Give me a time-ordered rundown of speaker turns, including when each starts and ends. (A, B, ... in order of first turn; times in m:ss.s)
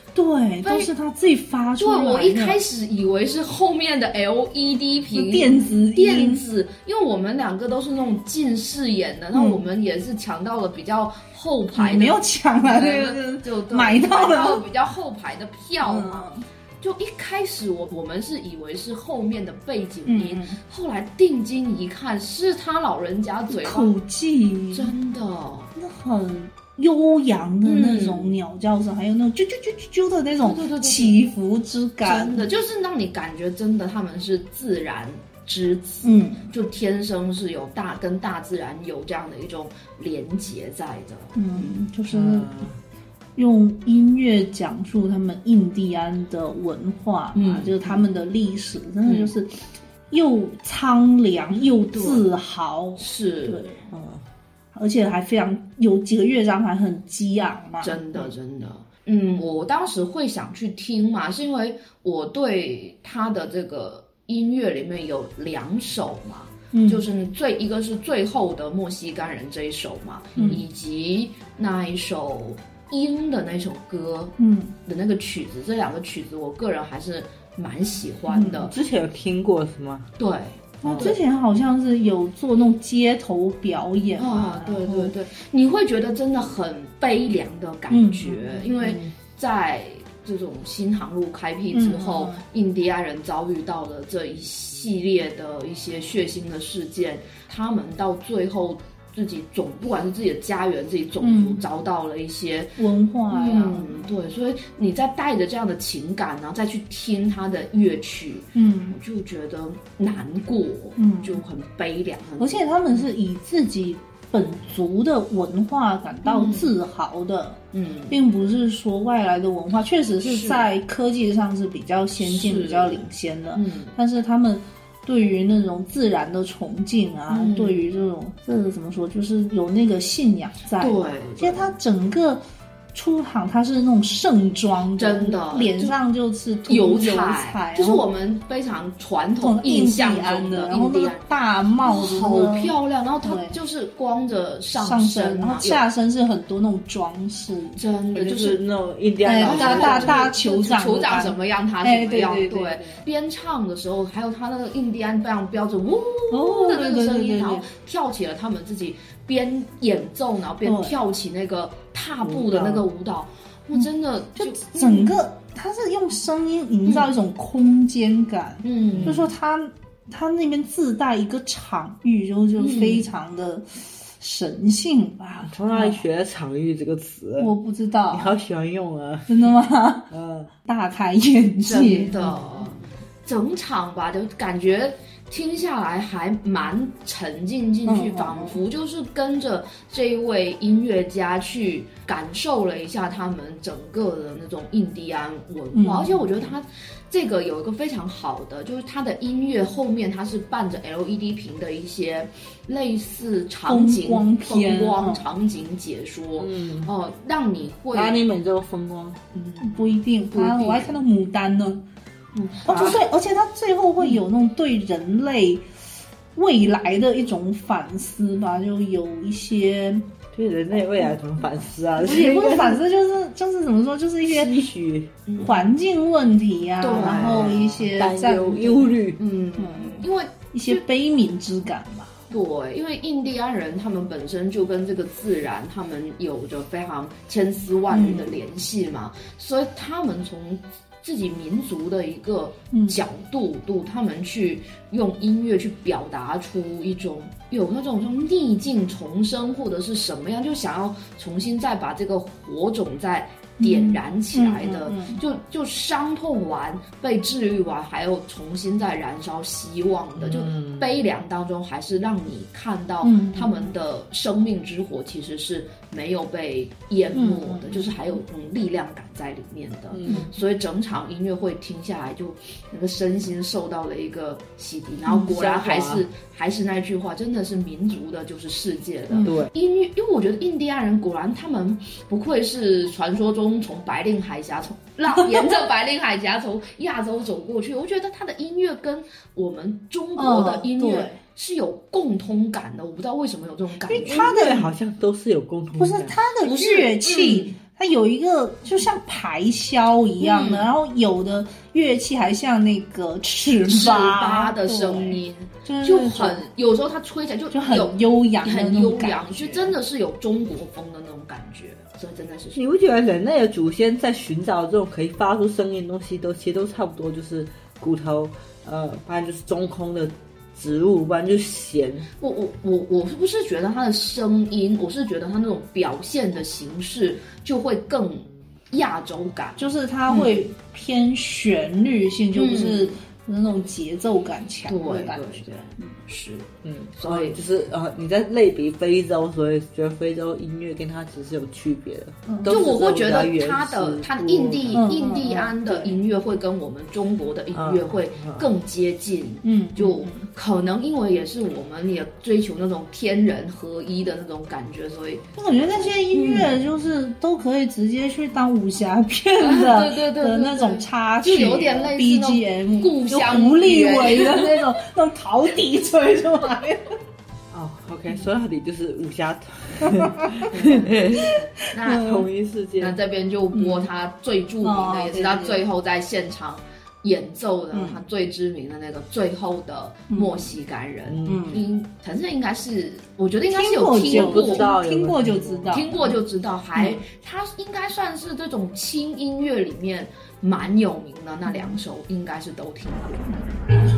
0:00.2-0:02.6 A
0:00.6-0:00.9 B
0:01.8-0:16.3 B
0:05.1-0:06.4 A
0:09.3-0:09.6 A
0:11.7-0:14.6 A
0:15.8-0:16.4 A
0:16.8-0:23.9 B
0:20.1-0:20.6 A
0:23.5-0:24.9 A
0:24.7-0:25.7 B
0:25.8-0:32.4 A
0:27.6-0:28.4 B
0:30.4-0:31.2 B
0:32.0-0:41.8 B
0:36.0-0:36.5 A
0:41.4-0:42.7 A
0:42.1-0:42.8 C
0:43.4-0:49.5 A
0:47.4-0:48.1 B
0:49.0-0:49.3 B
0:50.1-0:53.9 A
0:51.9-0:52.3 B
0:53.0-0:53.6 B
0:53.9-0:54.2 C
0:54.7-0:58.3 A
0:57.8-1:18.7 B
1:06.7-1:07.0 A
1:10.4-1:10.6 C
1:14.4-1:14.8 A
1:18.3-1:18.7 A
1:18.6-1:20.1 C
1:20.2-1:21.2 B
1:20.8-1:21.1 C
1:20.8-1:25.2 A
1:24.2-1:42.7 B
1:27.9-1:29.0 A
1:31.7-1:32.4 A
1:41.2-1:41.6 A
1:42.8-1:44.1 A
1:43.3-1:53.1 B
1:48.6-1:49.0 A
1:51.0-1:51.4 A
1:52.4-2:12.4 A
1:56.2-1:56.7 B
1:57.7-1:58.2 B
2:00.2-2:00.7 B
2:02.2-2:03.9 B
2:07.3-2:07.8 B
2:10.8-2:11.7 B
2:12.9-2:18.1 A
2:15.0-2:16.0 B
2:16.7-2:25.8 B
2:19.4-2:23.6 A
2:24.7-2:27.8 A
2:27.8-2:28.6 B
2:28.1-2:30.3 C
2:29.2-2:33.0 A
2:29.4-2:45.2 B
2:36.3-2:37.7 A
2:40.6-2:41.0 A
2:42.2-2:42.9 C
2:44.4-2:56.0 A
2:46.9-2:47.1 B
2:48.6-2:49.3 B
2:48.9-2:49.2 C
2:52.6-2:53.1 B
2:55.4-2:57.5 C
2:57.4-2:58.4 A
2:58.1-2:59.4 C
2:59.3-3:00.1 A
3:00.1-3:00.5 C
3:00.6-3:02.2 A
3:01.6-3:28.2 B
3:07.8-3:08.6 A
3:15.7-3:16.3 A
3:23.6-3:25.3 A
3:26.4-3:26.9 C
3:27.9-3:29.2 C
3:29.3-3:31.0 B
3:29.6-3:31.8 A
3:32.4-3:33.1 B
3:32.6-3:35.6 A
3:36.4-3:40.1 A
3:40.3-3:42.8 C
3:42.0-3:44.6 A
3:44.3-3:45.1 C
3:45.3-3:45.7 B
3:45.4-3:48.9 A
3:46.8-3:47.7 B
3:47.0-3:49.2 C
3:49.2-3:50.8 B
3:49.6-3:52.2 A
3:52.3-4:54.6 B
3:57.9-3:58.4 A
4:02.7-4:03.0 A
4:13.6-4:15.2 A
4:20.2-4:21.0 C
4:23.0-4:23.7 A
4:27.2-4:28.0 A
4:29.9-4:30.3 C
4:35.3-4:36.0 C
4:39.2-4:39.5 C
4:45.1-4:45.6 A
4:50.2-4:51.2 A
4:53.9-4:54.7 A
4:54.0-4:56.2 C
4:55.8-5:06.4 A
4:56.4-4:57.6 B
5:00.2-5:00.7 B
5:03.6-5:12.6 B
5:07.5-5:09.7 A
5:12.6-5:22.1 C
5:22.2-5:30.4 B
5:29.6-5:35.9 A
5:32.3-5:33.0 B
5:34.7-5:37.4 B
5:36.6-5:45.0 C
5:42.3-5:42.6 A
5:42.4-5:56.6 B
5:44.7-5:46.0 A
5:47.5-5:48.5 C
5:49.4-5:50.3 A
5:55.4-6:06.9 A
5:59.4-6:04.8 B
6:07.5-6:11.4 C
6:10.0-6:10.4 A
6:10.5-6:12.3 B
6:11.8-6:12.2 A
6:12.0-6:13.0 C
6:12.8-6:24.7 B
6:14.6-6:15.6 A
6:17.7-6:18.0 A
6:20.1-6:20.5 A
6:21.1-6:21.5 C
6:21.2-6:21.6 A
6:23.5-6:25.9 A
6:24.1-6:25.9 C
6:25.7-6:33.4 B
6:26.8-6:27.0 A
6:31.5-6:31.8 A